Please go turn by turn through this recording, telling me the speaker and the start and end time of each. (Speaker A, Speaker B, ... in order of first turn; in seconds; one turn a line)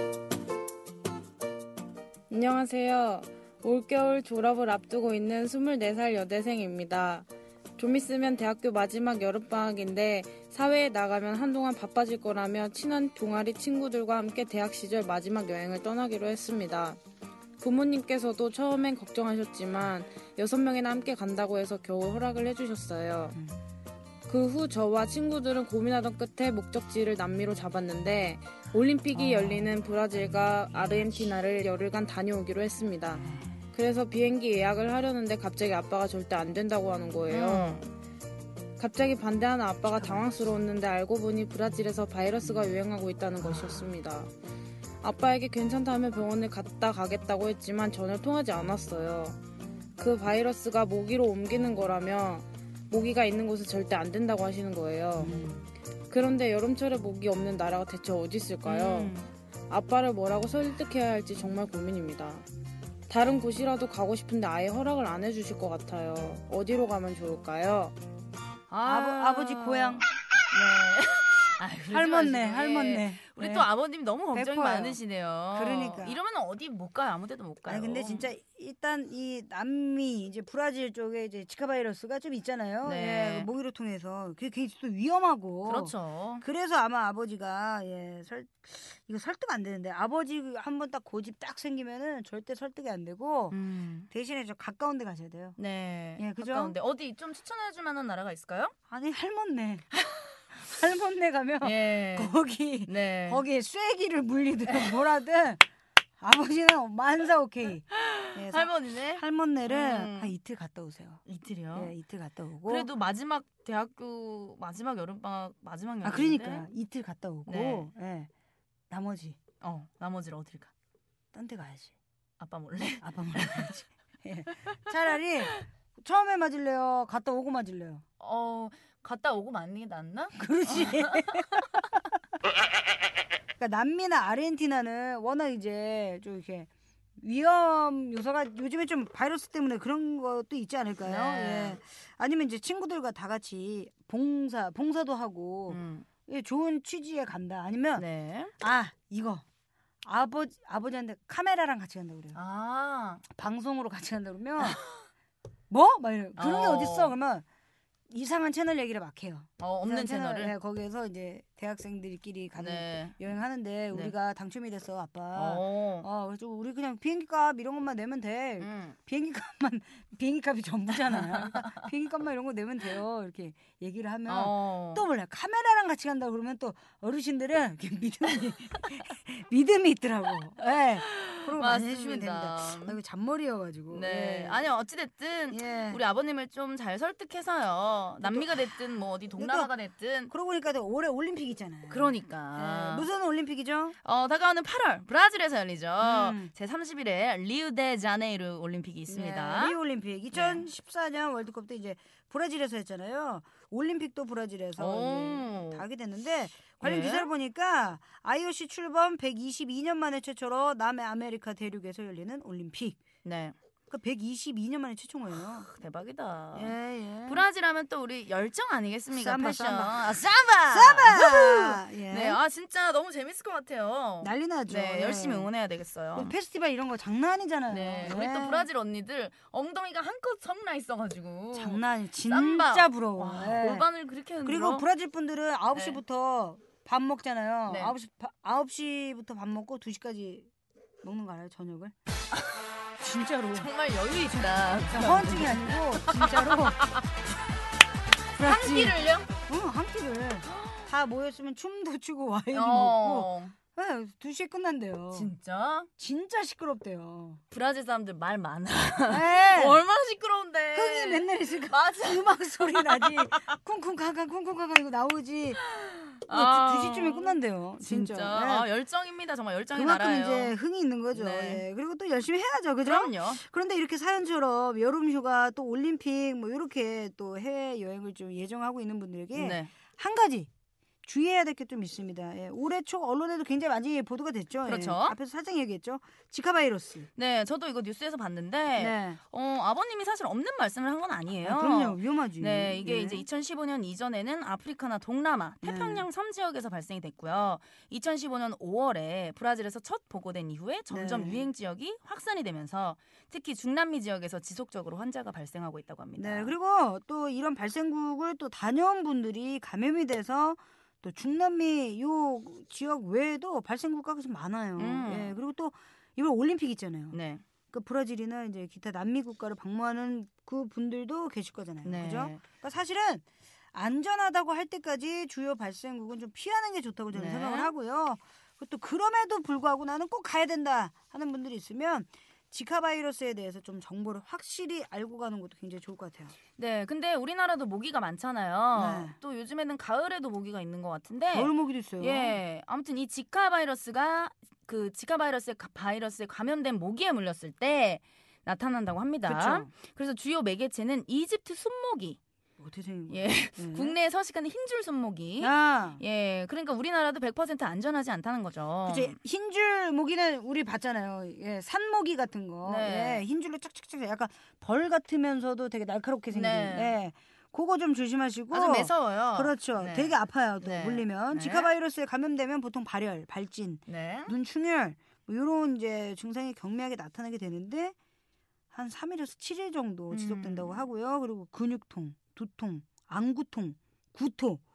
Speaker A: 2.3-17.0
Speaker A: 17.6-23.4
Speaker A: 24.3-37.9
Speaker B: 29.1-29.8
Speaker B: 33.2-33.5
Speaker C: 37.3-37.8
Speaker A: 38.8-44.3
Speaker B: 39.9-40.4
Speaker B: 42.4-42.7
Speaker B: 43.4-43.9
Speaker A: 45.0-49.4
Speaker A: 50.0-55.4
Speaker B: 55.2-55.7
Speaker A: 56.1-59.2
Speaker B: 58.6-59.3
Speaker A: 59.7-62.4
Speaker A: 63.1-67.9
Speaker C: 68.7-78.3
Speaker B: 68.8-70.1
Speaker B: 71.9-73.7
Speaker B: 74.3-75.0
Speaker B: 75.5-76.2
Speaker B: 77.7-93.6
Speaker C: 82.8-83.5
Speaker C: 85.6-86.4
Speaker C: 93.5-94.1
Speaker B: 94.1-95.6
Speaker C: 95.6-98.7
Speaker B: 96.2-96.8
Speaker B: 98.9-99.8
Speaker C: 99.9-100.4
Speaker B: 100.6-105.6
Speaker C: 101.6-102.3
Speaker C: 102.8-103.4
Speaker C: 104.7-105.0
Speaker B: 106.2-111.2
Speaker C: 107.9-110.3
Speaker C: 111.2-111.9
Speaker B: 111.7-112.9
Speaker C: 112.6-116.7
Speaker B: 116.0-118.3
Speaker C: 117.5-117.9
Speaker B: 118.9-119.4
Speaker C: 119.6-120.7
Speaker B: 121.3-121.9
Speaker C: 122.4-123.7
Speaker B: 123.0-128.0
Speaker C: 128.2-131.8
Speaker B: 130.3-131.8
Speaker B: 133.6-148.1
Speaker C: 141.0-141.8
Speaker C: 145.7-146.1
Speaker C: 147.9-148.5
Speaker B: 148.6-149.4
Speaker B: 150.0-152.4
Speaker C: 152.3-153.2
Speaker B: 153.3-154.8
Speaker B: 155.7-157.4
Speaker C: 156.4-157.1
Speaker B: 158.1-184.7
Speaker C: 159.6-160.5
Speaker C: 162.6-163.2
Speaker C: 165.3-166.1
Speaker C: 168.6-169.0
Speaker C: 171.1-171.8
Speaker C: 174.2-175.1
Speaker C: 181.0-183.0
Speaker C: 183.9-190.3
Speaker B: 185.5-186.0
Speaker B: 188.2-188.8
Speaker B: 189.3-189.7
Speaker B: 190.3-193.9
Speaker C: 191.9-193.1
Speaker C: 194.0-199.8
Speaker B: 196.0-196.5
Speaker B: 199.1-213.0
Speaker C: 200.3-200.7
Speaker C: 204.8-205.8
Speaker C: 206.8-207.3
Speaker C: 213.2-213.5
Speaker B: 213.9-215.7
Speaker C: 215.4-226.3
Speaker B: 216.5-217.4
Speaker B: 219.1-222.4
Speaker B: 224.2-225.5
Speaker B: 226.1-228.7
Speaker C: 227.7-234.9
Speaker B: 231.5-233.9
Speaker B: 234.4-240.5
Speaker C: 235.7-236.0
Speaker C: 237.7-237.9
Speaker B: 241.0-241.9
Speaker B: 243.0-246.8
Speaker C: 243.5-247.1
Speaker C: 248.3-249.3
Speaker B: 248.4-255.3
Speaker C: 250.5-250.9
Speaker C: 252.5-253.5
Speaker C: 255.1-255.9
Speaker B: 256.0-257.4
Speaker C: 257.5-263.5
Speaker B: 259.1-259.8
Speaker B: 260.7-265.6
Speaker C: 265.6-270.5
Speaker B: 266.2-268.7
Speaker B: 269.7-280.5
Speaker C: 271.1-271.6
Speaker C: 272.8-273.4
Speaker C: 279.3-279.7
Speaker B: 281.0-287.1
Speaker C: 284.6-285.1
Speaker C: 287.1-306.5
Speaker B: 288.8-289.2
Speaker B: 291.4-293.2
Speaker B: 295.6-296.0
Speaker B: 300.9-301.4
Speaker B: 306.2-317.2
Speaker C: 314.8-315.4
Speaker C: 317.1-317.4
Speaker B: 317.7-336.3
Speaker C: 321.8-322.4
Speaker C: 327.1-327.7
Speaker C: 336.6-352.2
Speaker B: 338.7-339.2
Speaker B: 341.3-342.4
Speaker B: 349.2-349.7
Speaker B: 352.6-354.0
Speaker C: 353.1-359.2
Speaker B: 355.4-356.0
Speaker B: 358.8-377.9
Speaker C: 362.6-363.2
Speaker C: 366.3-367.0
Speaker C: 368.5-371.7
Speaker C: 373.9-374.3
Speaker B: 378.7-384.6
Speaker C: 380.1-380.8